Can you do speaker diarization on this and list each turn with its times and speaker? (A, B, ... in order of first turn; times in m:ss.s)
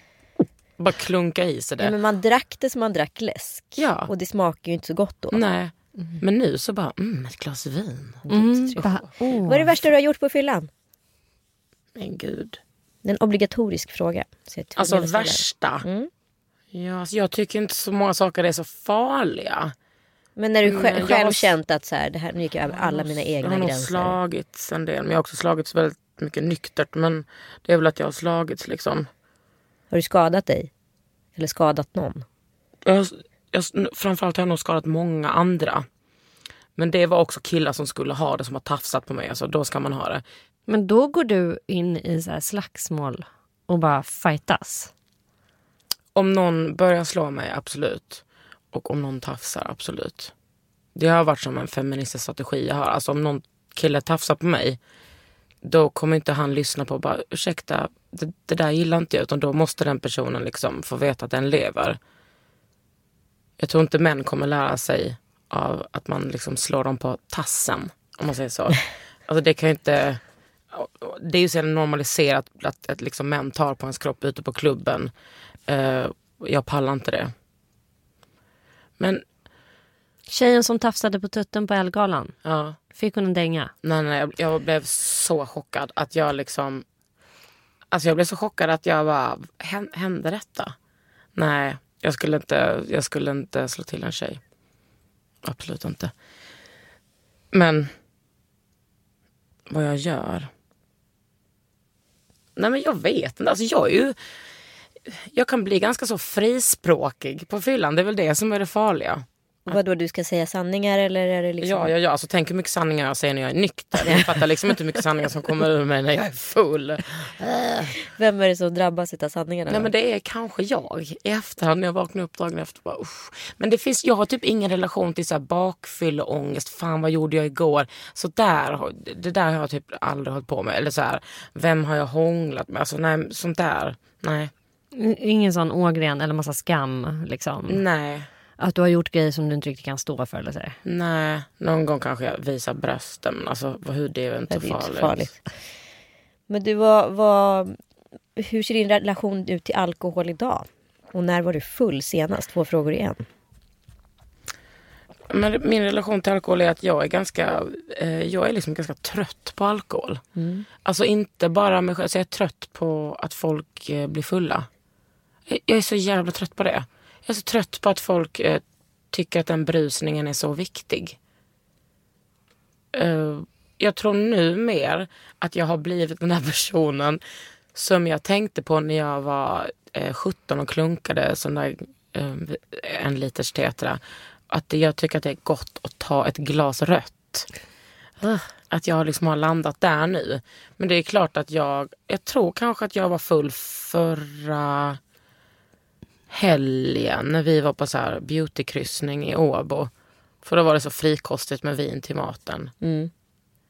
0:00.8-0:01.9 A
0:01.8-0:05.4 B
0:03.8-0:04.1 A
0:05.3-0:08.3 A
0:08.2-0:10.7 B
0:08.3-0:09.7 C
0:12.0-0:12.6 A
0:13.0-0:16.1 B
0:14.8-0:15.8 A
0:16.7-0:19.7 A
0:20.4-0:24.2 B
0:20.6-0:21.5 A
0:22.9-0:29.1 A
0:29.9-0:30.7 B
0:31.4-0:32.2 B
0:32.8-0:35.8 A
0:36.8-0:40.2 A
0:40.7-0:44.9 C
0:46.1-0:50.3 A
0:50.9-0:54.8 A
0:55.6-1:02.0 A
1:03.6-1:10.2 A
1:10.7-1:15.1 A
1:15.7-1:17.3 A
1:20.3-1:22.3 C
1:22.4-1:22.8 A
1:22.9-1:23.7 C
1:23.8-1:26.8 A
1:27.9-1:30.7 A
1:31.4-1:34.4 A
1:35.4-1:36.1 A
1:37.5-1:37.9 A
1:39.7-1:40.5 A
1:42.6-1:44.2 A
1:45.1-1:49.8 A
1:49.7-1:51.9 B
1:51.6-1:58.0 A
1:54.0-1:54.4 B
1:57.9-1:59.9 B
1:59.7-2:14.5 A
2:14.9-2:17.8 C
2:17.7-2:18.3 A
2:18.6-2:20.8 C
2:20.8-2:25.3 A
2:24.5-2:25.4 B
2:26.5-2:27.8 B
2:28.4-2:33.2 B
2:35.3-2:40.2 A
2:40.4-2:40.7 B
2:40.8-2:44.7 A
2:45.5-2:51.2 A
2:52.9-2:57.2 A
2:57.7-3:07.5 A
3:08.3-3:15.0 A
3:16.3-3:19.9 A
3:20.4-3:22.7 A
3:22.8-3:23.1 B